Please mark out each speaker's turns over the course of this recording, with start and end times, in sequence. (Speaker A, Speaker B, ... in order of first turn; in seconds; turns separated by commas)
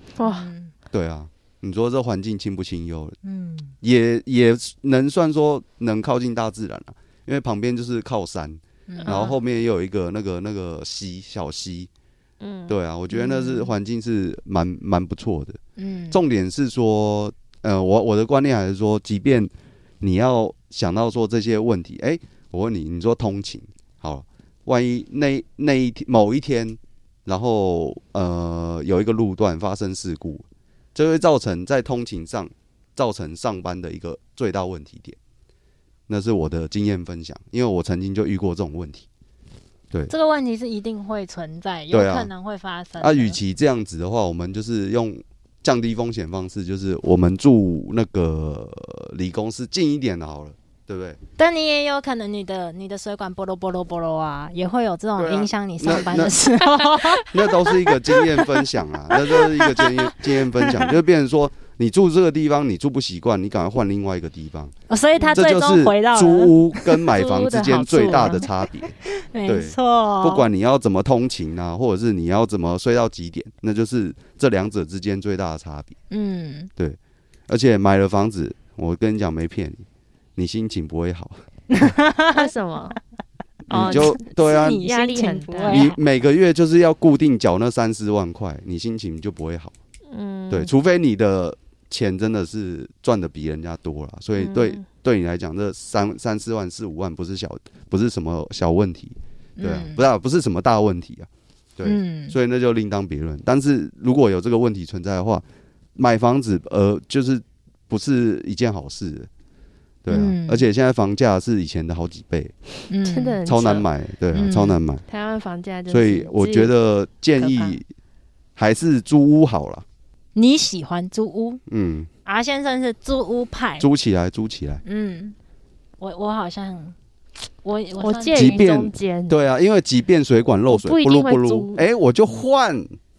Speaker A: 0.2-0.5, Speaker B: 0.2-0.7, Speaker C: 0.9-3.1, Speaker B: 3.2-3.7, Speaker C: 3.8-11.9, Speaker B: 8.9-9.4, Speaker A: 9.0-9.3, Speaker A: 12.4-12.7, Speaker C: 12.7-15.6, Speaker B: 13.1-13.5, Speaker B: 15.8-16.2, Speaker C: 16.1-35.2, Speaker C: 36.1-39.1, Speaker B: 40.1-43.4, Speaker C: 41.9-42.3, Speaker C: 43.0-51.2, Speaker B: 51.4-58.5, Speaker C: 55.2-56.4, Speaker C: 57.3-64.7, Speaker B: 59.1-60.9, Speaker B: 64.9-70.5, Speaker A: 65.2-65.4, Speaker C: 65.3-68.9, Speaker A: 67.1-68.5, Speaker C: 69.5-76.0, Speaker B: 76.1-76.7, Speaker C: 76.8-79.8, Speaker C: 80.3-81.4, Speaker B: 81.7-83.0, Speaker A: 82.3-83.0, Speaker C: 83.7-84.8, Speaker A: 83.7-85.9, Speaker B: 83.7-86.0, Speaker C: 85.7-89.7, Speaker A: 90.1-90.7, Speaker C: 90.5-105.4, Speaker A: 94.4-94.8, Speaker B: 99.6-100.0, Speaker B: 101.8-102.3, Speaker C: 106.0-109.3, Speaker C: 110.0-112.5, Speaker B: 110.1-110.7, Speaker B: 112.9-113.4, Speaker A: 113.0-113.8, Speaker C: 113.5-115.0, Speaker B: 114.3-114.8, Speaker A: 115.1-116.7, Speaker C: 115.9-117.9, Speaker A: 117.4-117.8, Speaker C: 118.6-119.8, Speaker B: 120.3-121.6, Speaker C: 121.7-122.1, Speaker B: 122.2-123.8, Speaker C: 123.8-124.8, Speaker B: 124.8-125.3, Speaker B: 126.0-127.0, Speaker B: 127.6-128.7, Speaker A: 128.0-129.4, Speaker C: 128.3-132.9, Speaker A: 130.7-131.8